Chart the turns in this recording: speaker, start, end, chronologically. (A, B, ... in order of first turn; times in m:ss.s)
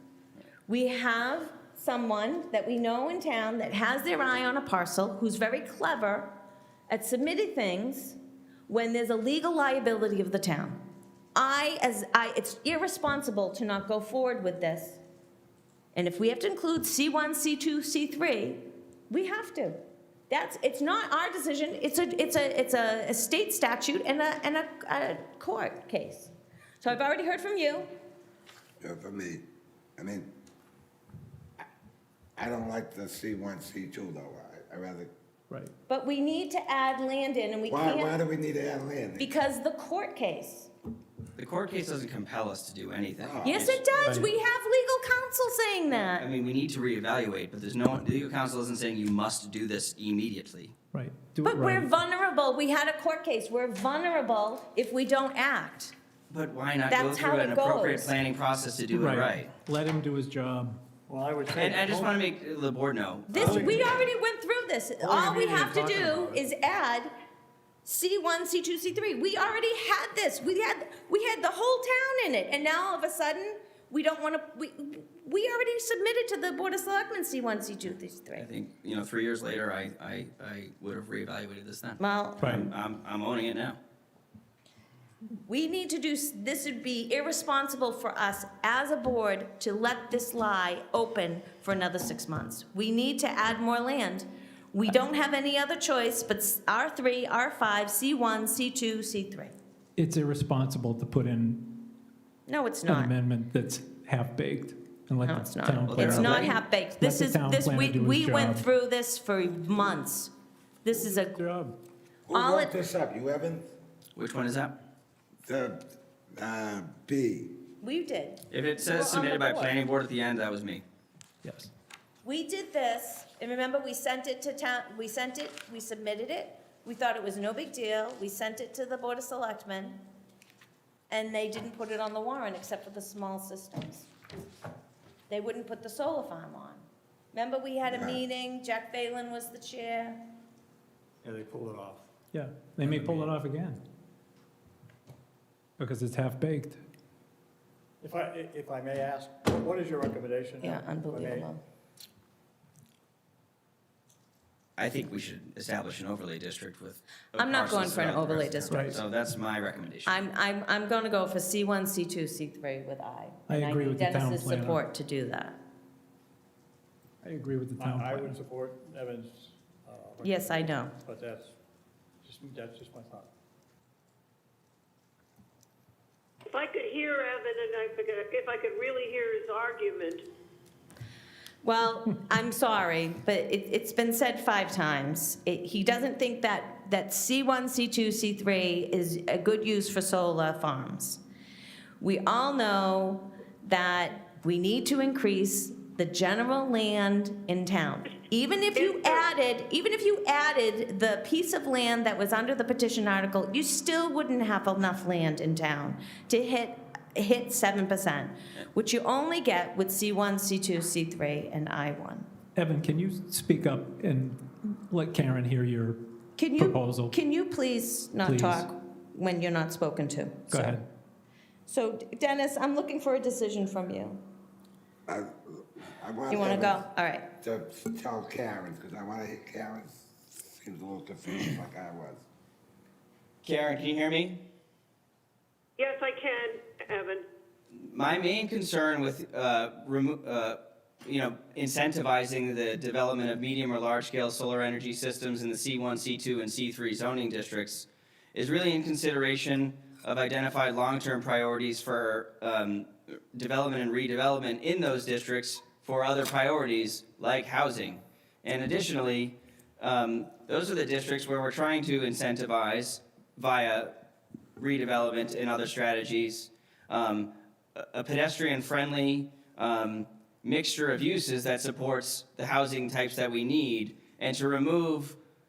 0:00.7-0:06.3 A
0:06.9-0:10.8 A
0:11.3-0:15.0 A
0:15.9-0:19.8 A
0:20.3-0:27.9 A
0:28.8-0:29.4 B
0:30.0-0:30.3 B
0:32.4-0:35.1 B
0:35.9-0:38.2 A
0:37.7-0:39.4 B
0:39.2-0:40.7 A
0:41.4-0:43.8 C
0:43.2-0:43.7 B
0:43.4-0:46.2 A
0:44.0-0:44.3 D
0:46.0-0:50.7 C
0:50.9-0:51.9 D
0:51.4-0:55.9 A
0:56.3-0:59.5 C
0:56.9-0:58.1 A
0:58.9-1:00.8 D
1:01.1-1:02.2 E
1:01.5-1:04.0 C
1:03.3-1:07.1 A
1:03.3-1:04.1 E
1:05.0-1:06.4 E
1:07.8-1:18.5 A
1:18.3-1:23.8 C
1:22.0-1:22.5 A
1:22.4-1:22.7 D
1:25.5-1:39.5 A
1:40.0-1:41.8 D
1:42.5-1:43.1 A
1:42.8-1:48.6 D
1:45.2-1:50.3 A
1:45.9-1:46.6 C
1:50.8-1:51.4 A
1:51.1-1:51.8 D
1:52.3-1:53.7 B
1:52.3-1:52.8 A
1:54.1-1:54.8 C
1:55.4-1:57.6 B
1:57.8-1:58.4 A
1:58.5-2:00.8 C
1:58.8-1:59.7 E
2:01.4-2:01.7 D
2:02.2-2:10.0 A
2:11.1-2:14.1 A
2:15.3-2:20.2 A
2:17.8-2:18.2 B
2:21.2-2:22.1 E
2:22.3-2:23.8 D
2:25.8-2:26.8 D
2:28.0-2:31.5 E
2:30.6-2:31.6 A
2:34.8-2:40.2 C
2:37.4-2:39.0 A
2:38.7-2:39.0 D
2:40.0-2:45.6 A
2:43.5-2:44.8 D
2:47.2-2:48.4 D
2:47.8-2:51.5 E
2:50.2-2:50.9 A
2:52.2-2:53.3 E
2:56.5-3:00.2 F
3:01.6-3:11.2 A
3:12.0-3:32.3 A
3:32.6-3:36.0 D
3:36.4-3:40.8 A
3:36.6-3:37.1 D
3:38.2-3:38.7 D
3:40.5-3:40.8 D
3:41.7-3:44.2 A
3:45.1-3:46.8 B
3:46.3-3:47.3 A
3:47.4-3:52.2 B
3:53.4-3:54.4 C
3:55.8-3:57.2 F
3:57.7-4:23.9 C
4:24.6-4:35.2 C